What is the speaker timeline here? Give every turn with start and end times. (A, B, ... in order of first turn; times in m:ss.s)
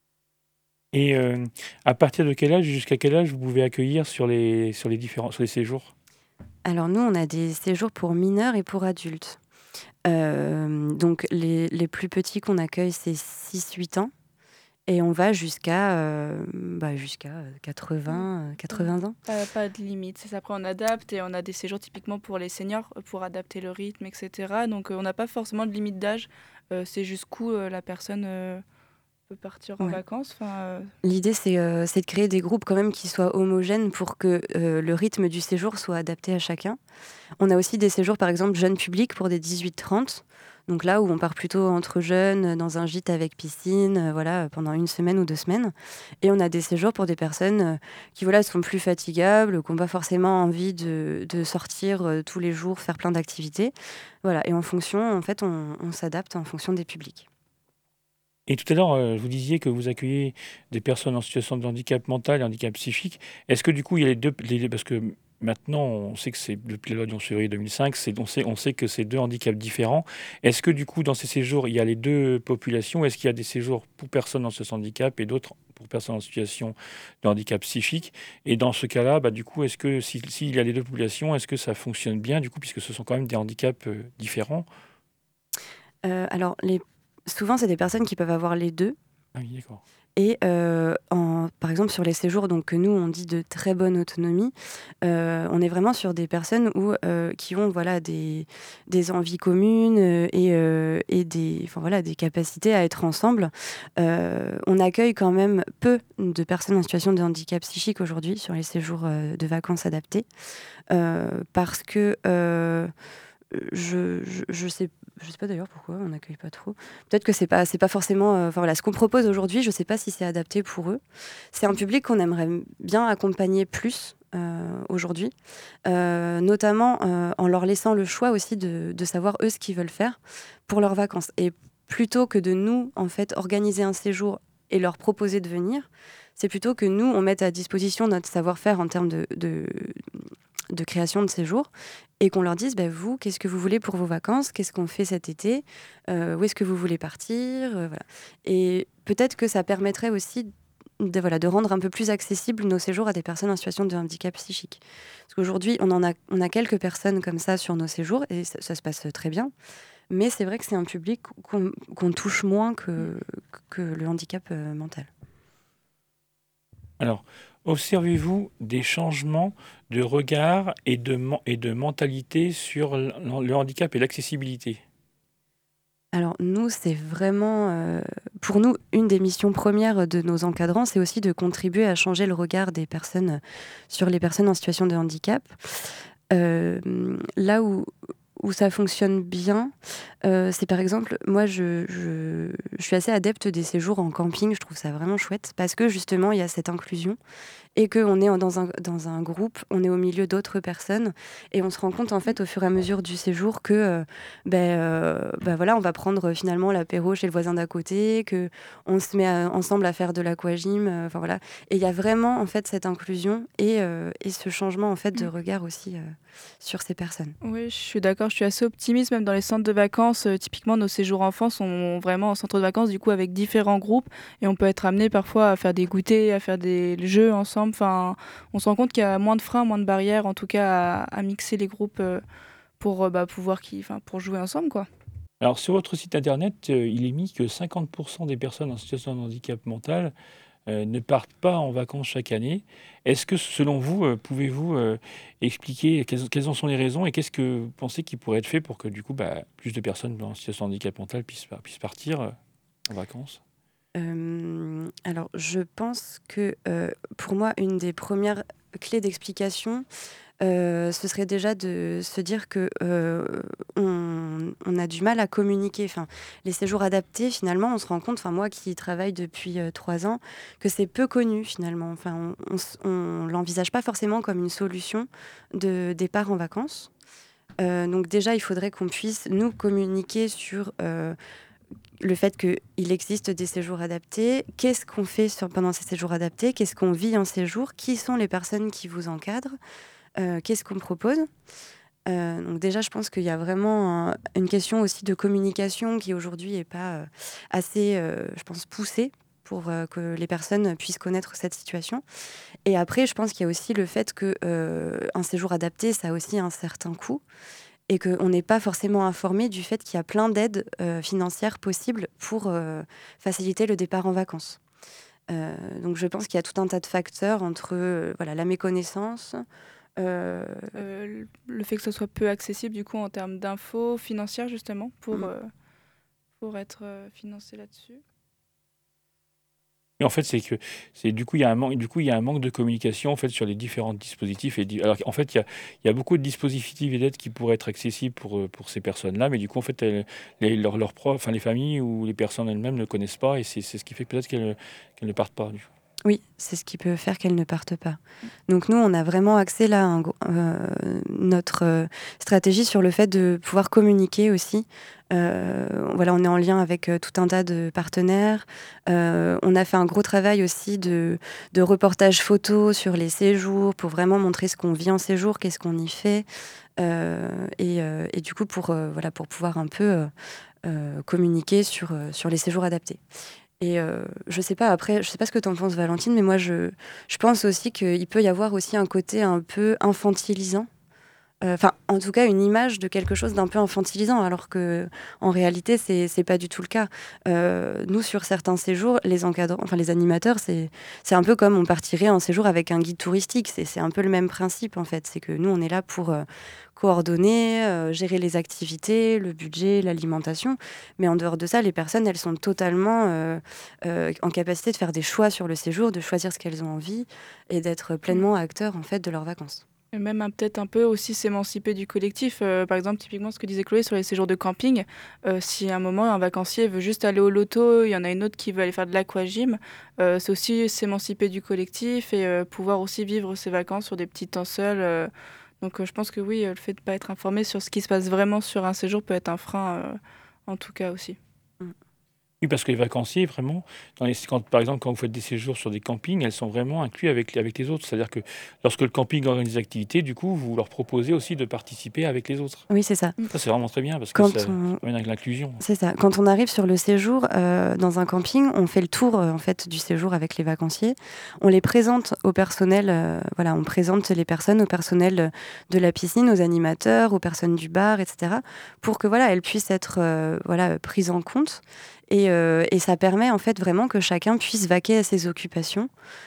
0:00.9-0:05.9 A
0:06.6-0:09.4 B
0:10.0-0:14.1 B
0:14.9-0:19.2 B
0:18.1-0:28.6 C
0:29.3-0:30.9 C
0:31.0-0:36.8 B
0:37.4-0:57.3 B
0:58.5-1:24.6 A
1:26.0-1:29.0 B
1:29.3-1:29.8 A
1:30.2-1:50.3 B
1:50.9-1:52.9 B
1:53.5-2:01.0 B
2:01.5-2:39.5 B
2:40.1-2:45.1 B
2:47.0-2:54.8 A
2:56.1-3:05.6 B
3:06.3-3:17.2 B
3:17.7-3:37.4 B
3:37.4-3:52.2 C
3:52.8-3:54.9 C
3:55.4-4:00.1 A
4:00.7-4:12.4 A
4:12.9-4:13.4 A
4:13.9-4:19.8 B
4:20.4-4:36.9 B
4:37.6-4:41.2 B
4:42.0-4:49.6 B
4:50.2-4:51.3 B
4:52.1-5:02.0 B
5:02.6-5:07.2 B
5:07.9-5:14.6 B
5:15.3-5:19.4 B
5:20.0-5:20.8 B
5:20.7-5:25.5 C
5:26.4-5:28.0 C
5:30.0-5:45.7 A
5:46.0-6:06.2 B
6:06.8-6:10.1 B
6:10.6-6:13.0 B
6:13.6-6:20.7 B
6:21.4-6:49.6 B
6:49.9-7:05.1 C
7:05.6-7:11.2 C
7:12.4-7:22.6 A
7:22.7-7:23.2 B
7:23.3-7:25.6 A
7:24.1-7:24.8 B
7:25.6-7:45.9 B